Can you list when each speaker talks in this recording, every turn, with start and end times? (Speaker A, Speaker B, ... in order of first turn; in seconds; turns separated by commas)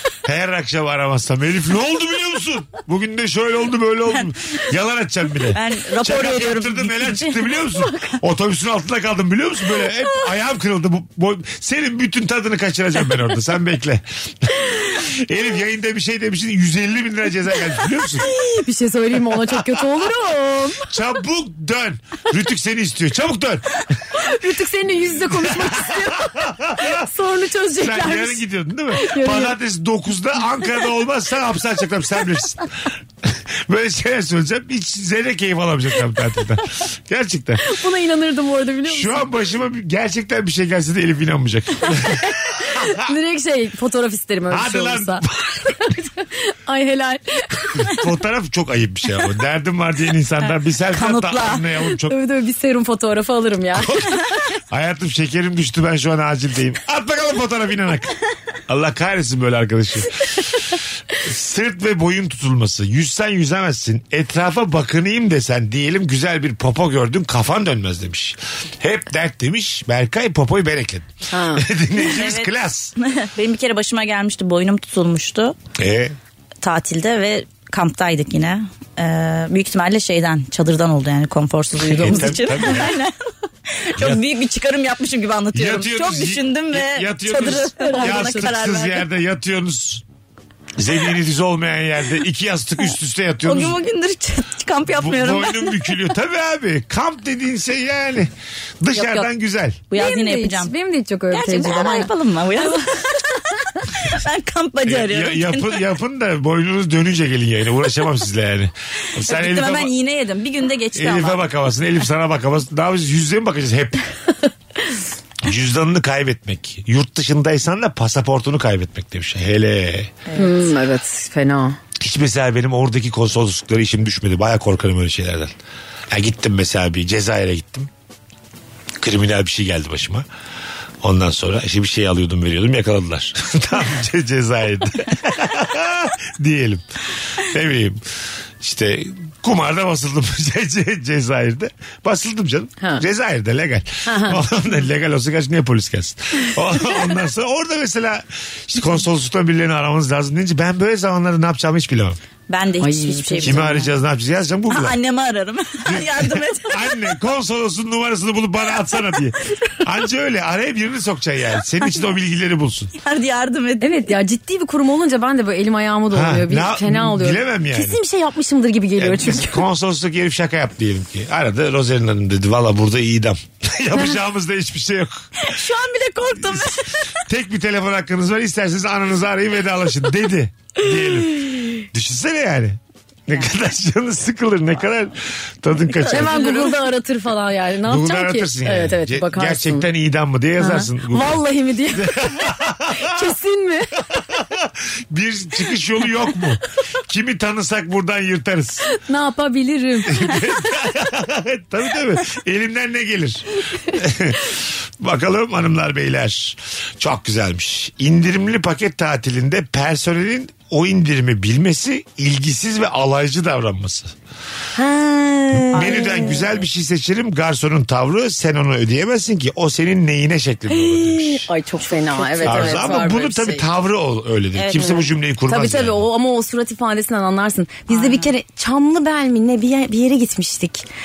Speaker A: 0.2-18.3, Speaker B: 5.5-7.5, Speaker C: 18.2-20.9, Speaker A: 19.5-19.8, Speaker A: 20.9-23.8, Speaker C: 24.1-29.6, Speaker A: 25.3-27.0, Speaker A: 27.8-32.7, Speaker A: 33.2-37.7, Speaker C: 37.6-39.3, Speaker A: 38.9-43.1, Speaker C: 41.9-48.0, Speaker A: 44.5-45.7, Speaker A: 47.8-52.1, Speaker B: 50.9-51.6, Speaker C: 51.9-54.2, Speaker A: 53.7-58.1, Speaker A: 58.7-60.5, Speaker A: 61.2-72.9, Speaker C: 71.3-71.7, Speaker B: 72.0-75.6, Speaker A: 75.8-76.2, Speaker B: 76.6-83.2, Speaker A: 81.8-83.0, Speaker B: 83.7-89.0, Speaker A: 84.0-84.2, Speaker A: 85.5-90.0, Speaker C: 87.8-88.3, Speaker A: 90.8-93.8, Speaker B: 93.4-96.0, Speaker A: 94.9-99.8, Speaker B: 99.0-99.3, Speaker B: 99.9-100.7, Speaker C: 99.9-102.1, Speaker B: 101.3-105.9, Speaker A: 104.9-109.9, Speaker B: 109.2-111.4, Speaker A: 111.0-114.0, Speaker A: 115.4-120.1, Speaker B: 120.3-120.7, Speaker C: 120.3-121.8, Speaker A: 122.0-125.5, Speaker A: 126.1-127.9, Speaker A: 129.0-130.3, Speaker A: 131.0-138.0, Speaker A: 138.6-152.2, Speaker C: 144.1-144.4, Speaker B: 152.5-153.8, Speaker C: 152.8-153.9, Speaker A: 153.4-155.0, Speaker B: 154.7-157.0, Speaker A: 155.8-162.9, Speaker B: 163.0-164.1, Speaker C: 163.8-169.6, Speaker A: 166.1-168.0, Speaker A: 169.0-175.5, Speaker B: 175.4-177.1, Speaker A: 177.3-186.6, Speaker B: 185.9-186.8, Speaker C: 186.1-189.9, Speaker A: 187.8-191.4, Speaker C: 190.6-194.1, Speaker A: 191.9-193.3, Speaker A: 194.1-198.9, Speaker C: 198.9-200.5, Speaker A: 200.1-214.1, Speaker C: 214.8-216.4, Speaker B: 215.7-216.4, Speaker A: 215.7-221.5, Speaker C: 220.7-223.7, Speaker B: 222.4-222.9, Speaker A: 222.4-226.0, Speaker B: 224.6-225.1, Speaker C: 225.5-230.9, Speaker B: 227.9-228.3